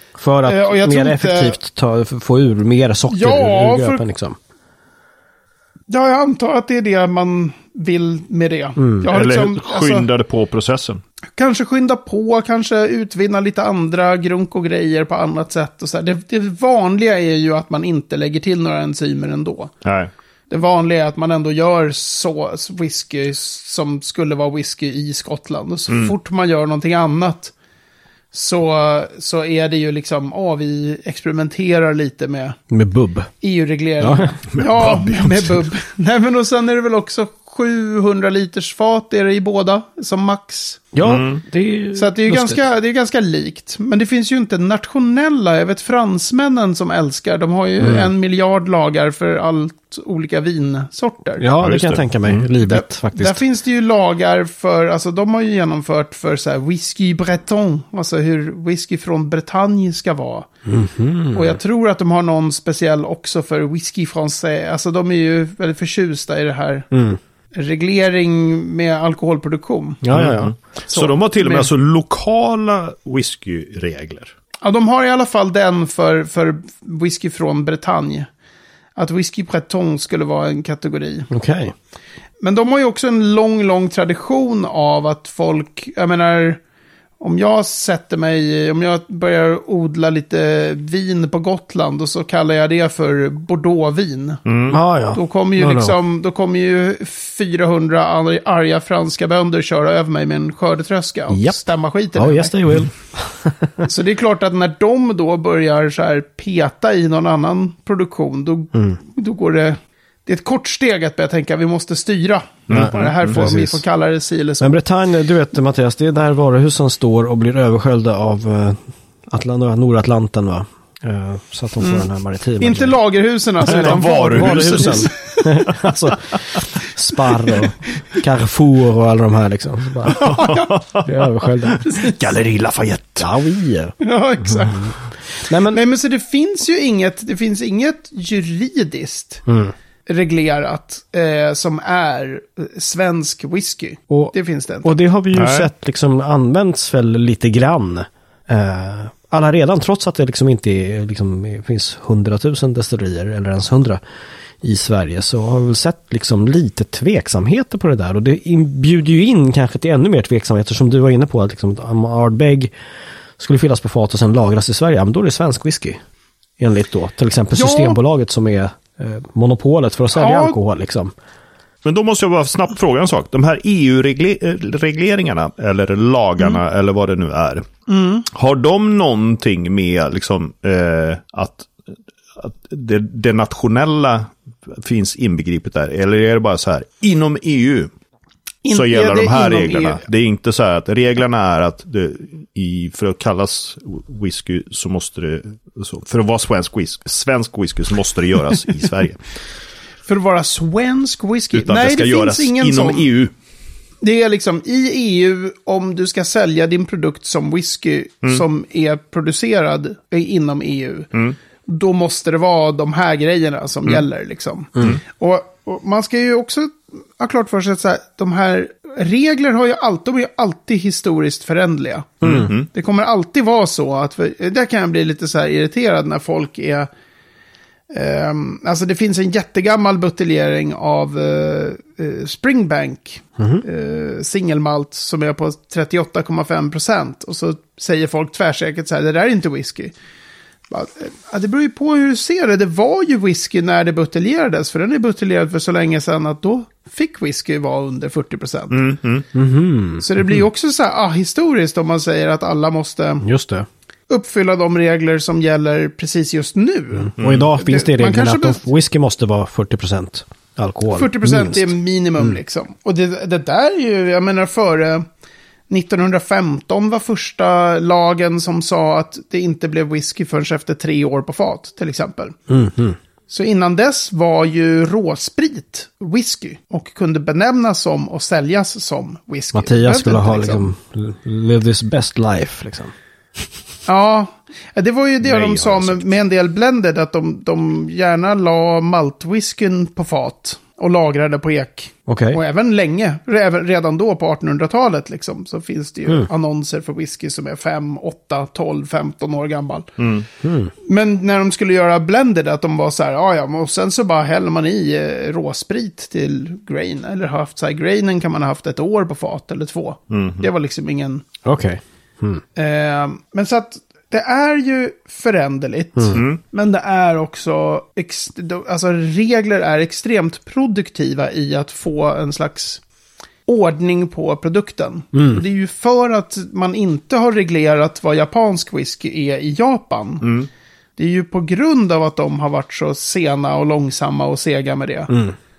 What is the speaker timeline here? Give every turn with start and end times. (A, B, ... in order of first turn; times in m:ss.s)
0:00.2-0:04.4 A
0:00.4-0:01.6 B
0:03.1-0:04.0 B
0:05.9-0:10.1 B
0:08.8-0:09.1 A
0:09.1-0:11.0 C
0:11.4-0:19.7 B
0:19.8-0:20.1 C
0:20.5-0:27.5 B
0:25.9-0:26.1 C
0:28.3-0:32.6 B
0:32.7-0:33.3 A
0:33.4-0:40.9 B
0:34.0-0:34.3 A
0:34.6-0:35.6 C
0:40.9-0:42.6 A
0:41.0-0:41.4 C
0:42.0-0:51.5 B
0:47.8-0:48.1 A
0:51.4-0:53.4 A
0:51.6-0:52.5 C
0:52.6-1:00.5 B
1:00.6-1:01.6 A
1:01.3-1:06.9 B
1:06.9-1:07.2 A
1:07.5-1:10.1 B
1:10.0-1:10.5 A
1:10.1-1:14.3 C
1:10.9-1:11.7 B
1:14.6-1:18.3 B
1:19.0-1:21.3 B
1:21.3-1:21.7 A
1:22.4-1:26.6 B
1:27.2-1:34.4 B
1:34.4-1:34.8 C
1:34.7-1:35.9 A
1:35.1-1:42.5 B
1:41.3-1:41.6 A
1:42.2-1:43.9 A
1:43.8-1:54.8 B
1:48.7-1:49.0 A
1:52.7-1:53.4 C
1:52.7-1:53.8 A
1:54.6-2:03.0 A
2:01.8-2:02.1 B
2:02.6-2:05.7 B
2:03.6-2:05.0 C
2:03.6-2:10.3 A
2:10.1-2:10.8 B
2:10.1-2:13.3 C
2:11.0-2:11.8 A
2:11.8-2:12.3 B
2:13.2-2:14.0 A
2:14.0-2:19.4 B
2:15.5-2:15.8 A
2:19.5-2:19.7 A
2:20.1-2:25.0 B
2:24.1-2:34.0 A
2:25.3-2:25.7 C
2:34.6-2:42.7 A
2:43.4-2:46.0 A
2:46.6-2:51.1 A
2:47.5-2:48.0 B
2:50.1-2:50.6 B
2:51.8-2:57.7 C
2:57.9-2:58.3 B
2:58.3-3:01.7 C
3:02.4-3:07.9 C
3:08.6-3:10.0 B
3:08.7-3:19.2 C
3:20.0-3:23.1 B
3:21.5-3:23.3 C
3:24.0-3:31.1 B
3:31.7-3:46.9 B
3:42.2-3:42.7 C
3:47.9-3:59.9 B
3:53.4-3:53.6 A
4:00.7-4:08.8 B
4:08.7-4:09.2 C
4:09.3-4:10.0 A
4:10.0-4:13.2 B
4:13.2-4:13.7 A
4:14.1-4:18.6 B
4:17.2-4:17.5 C
4:17.2-4:22.3 A
4:20.9-4:25.0 B
4:25.7-4:32.4 B
4:32.5-4:33.0 A
4:33.3-4:40.7 B
4:39.5-4:42.9 A
4:43.8-4:59.9 B
4:45.2-4:46.0 C
4:52.1-4:52.4 A
5:00.0-5:00.3 C
5:00.4-5:00.7 A
5:00.8-5:11.2 B
5:10.1-5:10.5 C
5:11.4-5:12.4 A
5:12.6-5:22.8 B
5:16.1-5:16.4 C
5:23.4-5:30.4 B
5:25.1-5:25.4 A
5:30.2-5:30.5 C
5:31.0-5:35.1 B
5:35.1-5:35.4 A